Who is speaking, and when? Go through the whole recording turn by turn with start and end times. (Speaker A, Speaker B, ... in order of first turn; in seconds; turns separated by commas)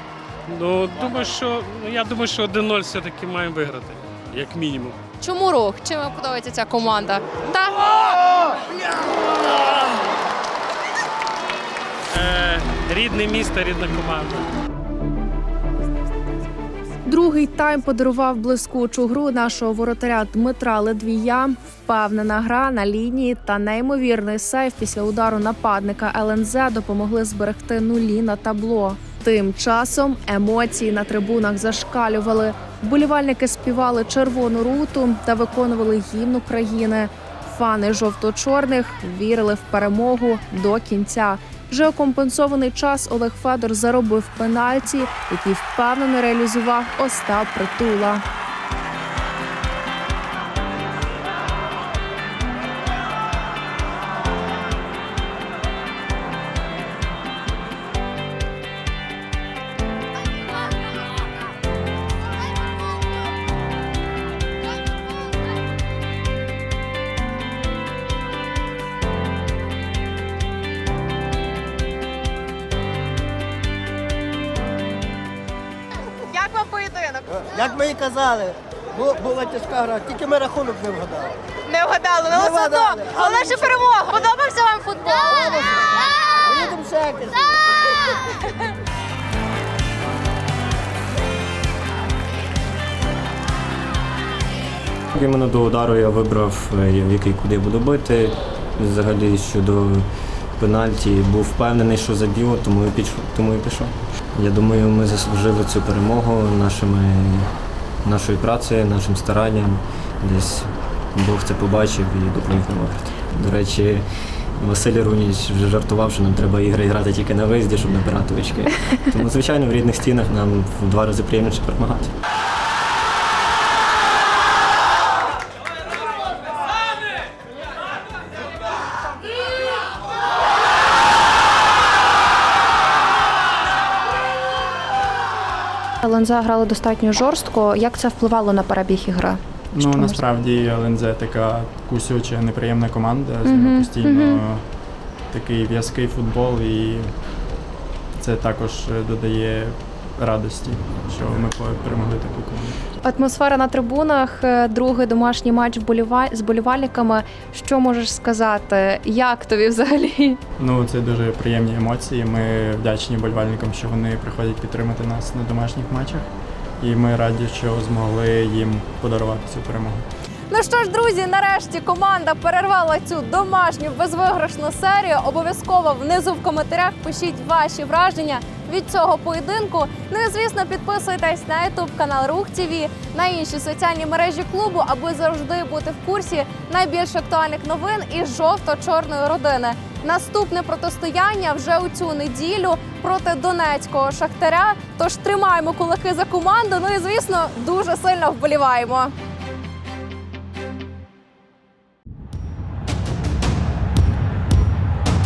Speaker A: 0.5-5.0, Speaker B: 5.2-7.8, Speaker A: 12.1-14.5, Speaker C: 17.1-48.2, Speaker B: 76.3-77.4, Speaker D: 77.5-81.4, Speaker B: 81.7-85.6, Speaker D: 82.3-83.8, Speaker D: 85.3-85.9, Speaker D: 86.5-87.4, Speaker E: 95.1-122.1, Speaker F: 136.0-140.2, Speaker G: 139.7-144.7, Speaker F: 143.5-144.4, Speaker G: 145.2-147.1, Speaker G: 148.1-152.8, Speaker F: 153.1-160.4, Speaker G: 160.6-170.1, Speaker B: 170.5-199.1